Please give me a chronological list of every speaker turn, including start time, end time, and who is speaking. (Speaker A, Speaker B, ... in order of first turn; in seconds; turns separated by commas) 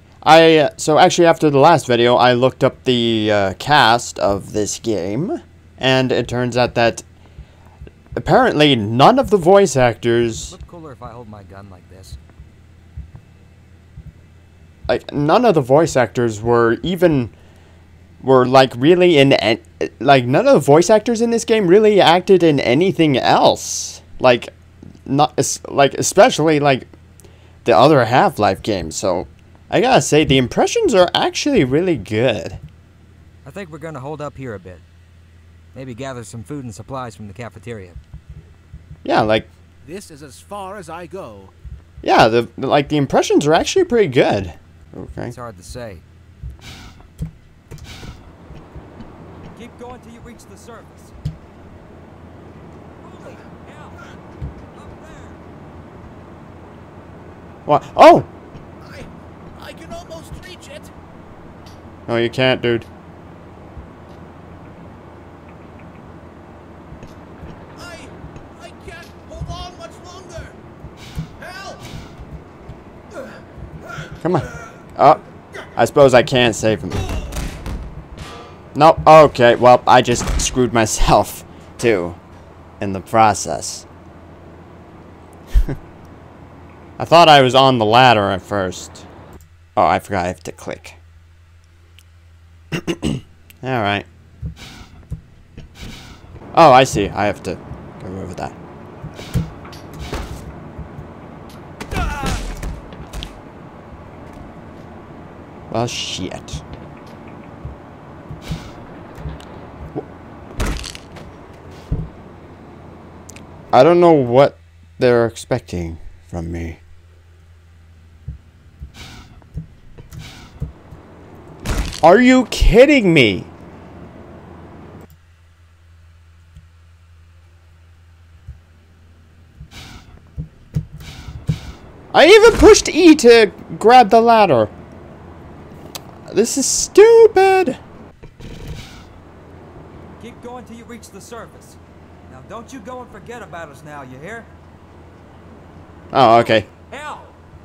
Speaker A: 0.2-7.0, Speaker A: 8.2-10.5, Speaker B: 10.5-12.2, Speaker A: 14.9-17.3, Speaker A: 18.2-24.5, Speaker A: 25.1-26.9, Speaker A: 27.6-32.6, Speaker B: 33.4-34.8, Speaker B: 35.7-38.0, Speaker A: 39.0-39.5, Speaker C: 39.8-41.5, Speaker A: 42.0-45.3, Speaker B: 45.3-46.0, Speaker B: 49.5-51.1, Speaker B: 53.0-54.0, Speaker B: 54.7-55.4, Speaker A: 57.7-58.3, Speaker C: 58.8-60.9, Speaker A: 62.1-62.9, Speaker C: 67.8-70.6, Speaker C: 71.4-71.9, Speaker A: 74.2-75.2, Speaker A: 75.7-77.1, Speaker A: 78.7-82.2, Speaker A: 82.8-83.8, Speaker A: 87.0-89.0, Speaker A: 89.8-91.0, Speaker A: 92.7-94.1, Speaker A: 96.5-98.5, Speaker A: 105.7-106.6, Speaker A: 113.7-116.8, Speaker A: 122.0-123.5, Speaker A: 132.1-134.7, Speaker A: 136.3-137.8, Speaker B: 140.2-144.5, Speaker A: 146.1-146.7, Speaker B: 146.4-147.3